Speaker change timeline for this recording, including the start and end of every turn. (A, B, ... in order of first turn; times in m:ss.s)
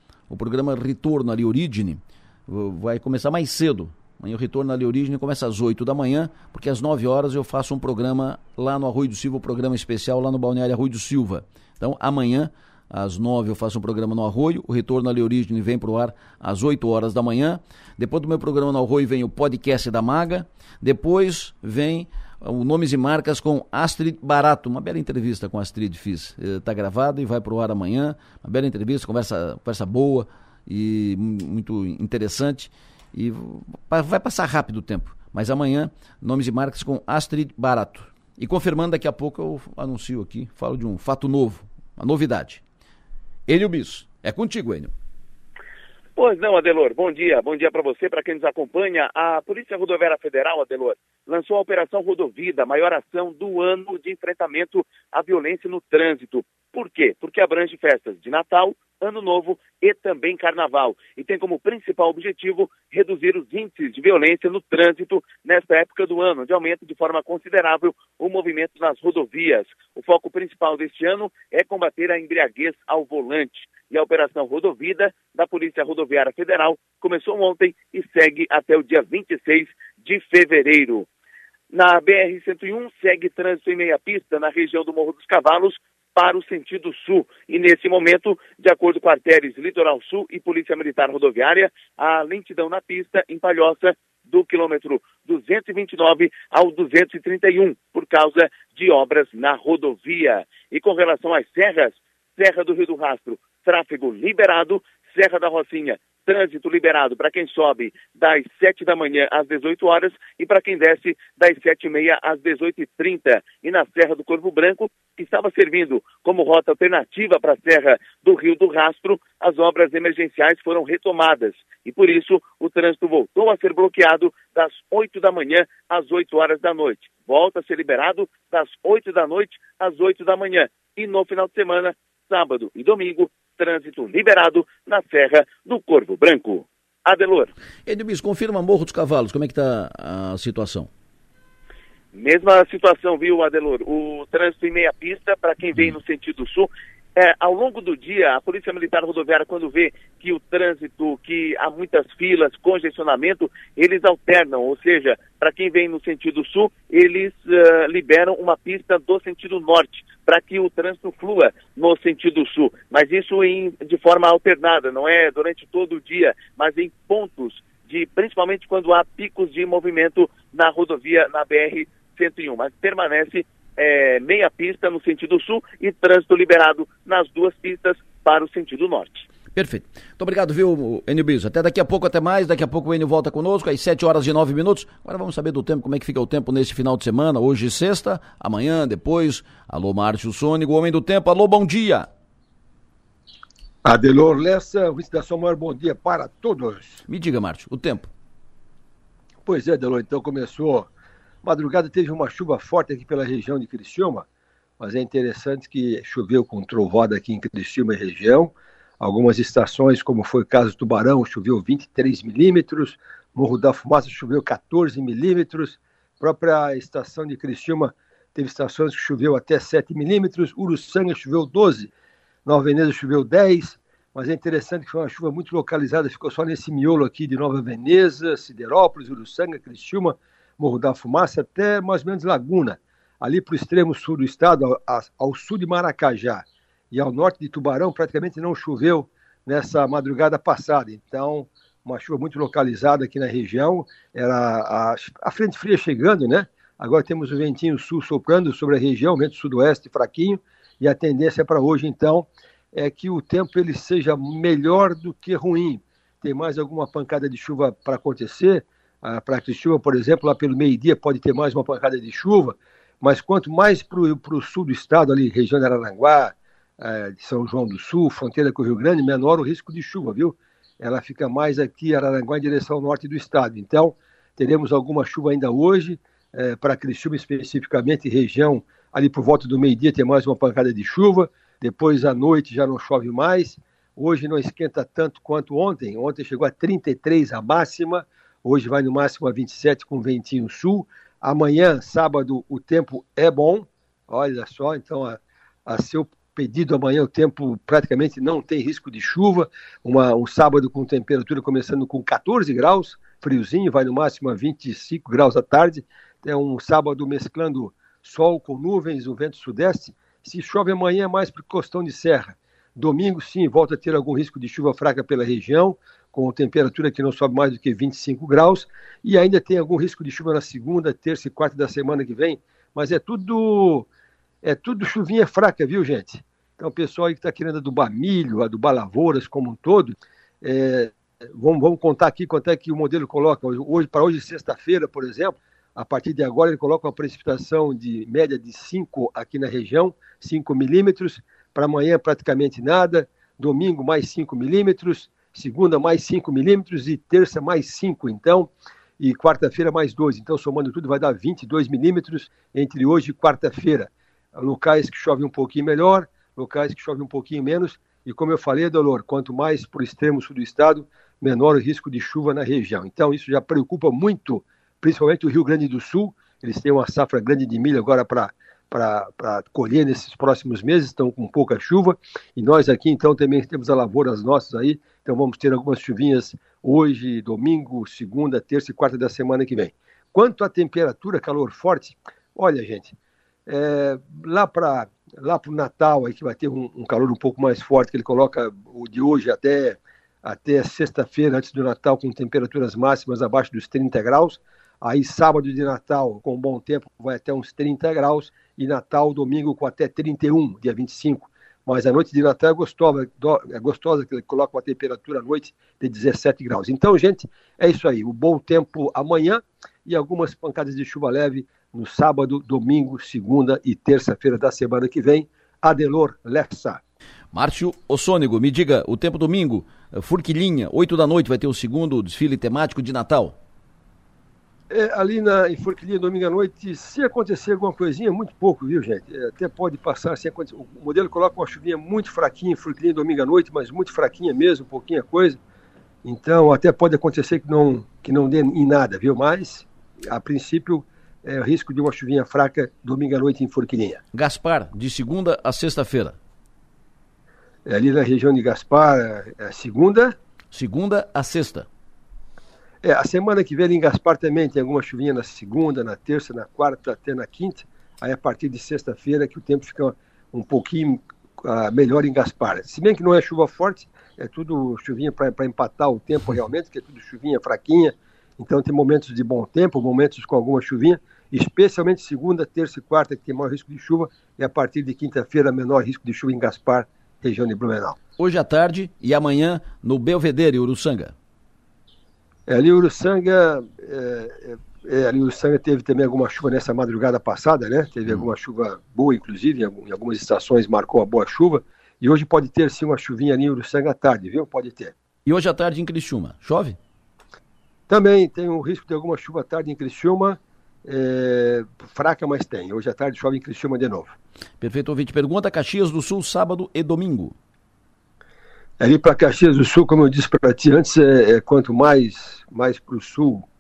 0:00.3-0:42.6 A
0:43.5-0:44.9 A
0:46.2-1:21.1 B
1:21.7-2:17.5 B
2:17.9-2:20.9 A
2:22.1-2:59.3 B
2:59.6-3:12.1 A
3:13.8-3:17.0 C
3:17.1-3:18.1 A
3:19.4-3:20.9 C
3:21.4-3:24.2 C
3:24.8-3:41.9 C
3:42.5-5:23.9 C
5:24.4-6:23.0 C
6:23.5-6:56.8 C
6:57.3-7:03.4 A
7:04.7-7:15.4 C
7:16.0-7:24.0 C
7:24.1-7:26.2 A
7:27.7-7:30.2 C
7:30.5-7:31.7 A
7:32.8-7:58.0 C
7:58.2-8:01.1 A
8:02.5-8:14.9 C
8:15.3-8:16.8 A
8:17.9-8:24.2 C
8:24.6-8:27.4 A
8:28.8-8:33.4 C